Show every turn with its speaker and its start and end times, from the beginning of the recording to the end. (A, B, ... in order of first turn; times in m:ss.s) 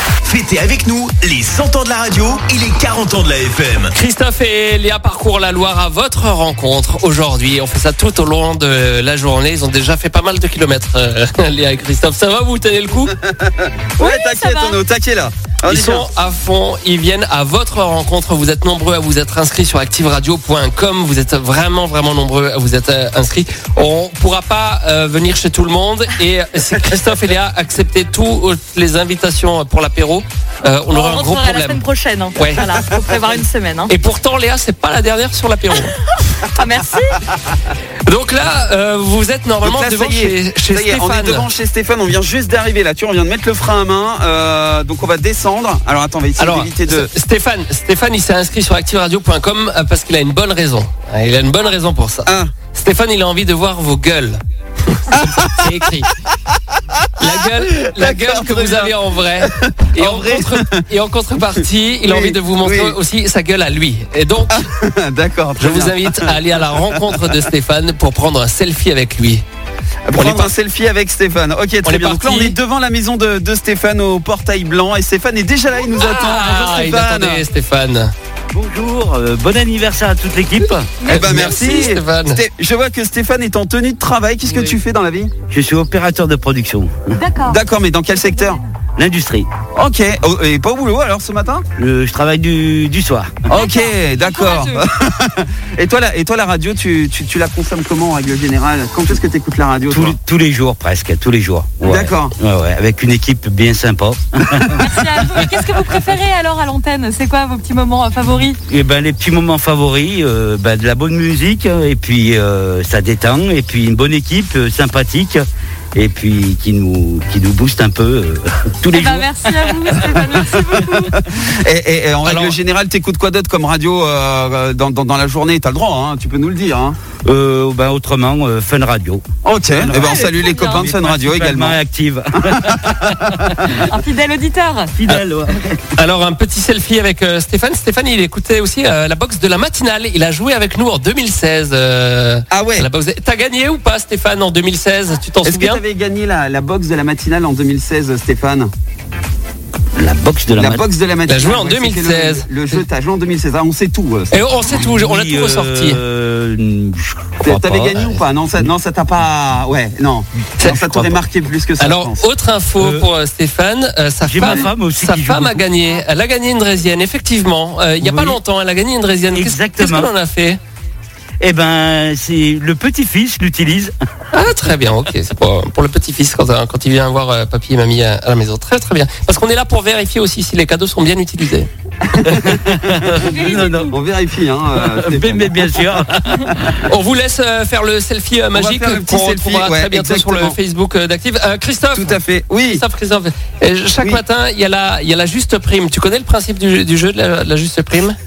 0:00.2-0:04.0 A
0:04.0-0:13.1 B
0:13.2-0:16.1 C
0:14.0-0:14.8 D
0:15.7-0:31.8 B
0:30.9-0:33.9 D
0:32.4-0:32.8 B
0:33.9-0:36.1 B
0:36.5-0:37.3 D
0:38.0-0:41.5 B
0:39.6-0:47.1 C
0:46.4-0:56.1 B
0:52.3-0:52.5 C
0:55.1-0:55.9 C
0:57.0-1:00.9 C
0:57.2-1:04.7 B
1:01.4-1:03.0 C
1:04.6-1:07.2 C
1:05.6-1:09.4 B
1:10.1-1:17.4 C
1:10.1-1:10.5 B
1:11.8-1:12.6 B
1:15.9-1:18.1 B
1:18.5-1:20.9 E
1:20.7-1:22.4 B
1:21.0-1:21.8 D
1:21.1-1:25.3 C
1:24.5-1:24.7 E
1:25.5-1:27.1 E
1:27.2-1:28.7 D
1:27.4-1:28.6 C
1:29.0-1:29.5 E
1:29.7-1:31.6 C
1:31.8-1:33.4 E
1:33.5-1:40.2 C
1:33.5-1:34.9 D
1:39.9-1:45.8 E
1:41.8-1:42.3 C
1:44.8-1:48.6 D
1:48.7-2:00.1 E
1:58.9-2:01.2 D
2:00.7-2:07.0 C
2:02.2-2:02.6 B
2:07.2-2:13.7 E
2:09.4-2:11.8 C
2:10.0-2:10.8 D
2:12.4-2:13.8 C
2:13.8-2:14.9 D
2:14.9-2:15.9 E
2:15.9-2:25.8 B
2:22.5-2:22.9 C
2:25.4-2:28.7 C
2:30.0-2:30.8 E
2:30.6-2:34.4 C
2:31.3-2:32.8 B
2:34.3-2:36.0 B
2:34.7-2:38.7 E
2:37.4-2:42.2 C
2:40.6-2:41.2 B
2:41.8-2:50.6 B
2:42.8-2:43.1 E
2:44.2-2:45.7 E
2:48.0-2:48.4 E
2:49.3-2:50.1 E
2:51.4-2:53.9 E
2:54.3-3:01.7 B
3:02.2-3:03.2 C
3:02.2-3:03.9 E
3:03.2-3:03.9 D
3:03.9-3:05.8 C
3:04.7-3:06.9 E
3:06.8-3:18.2 B
3:08.5-3:10.6 C
3:12.0-3:12.8 C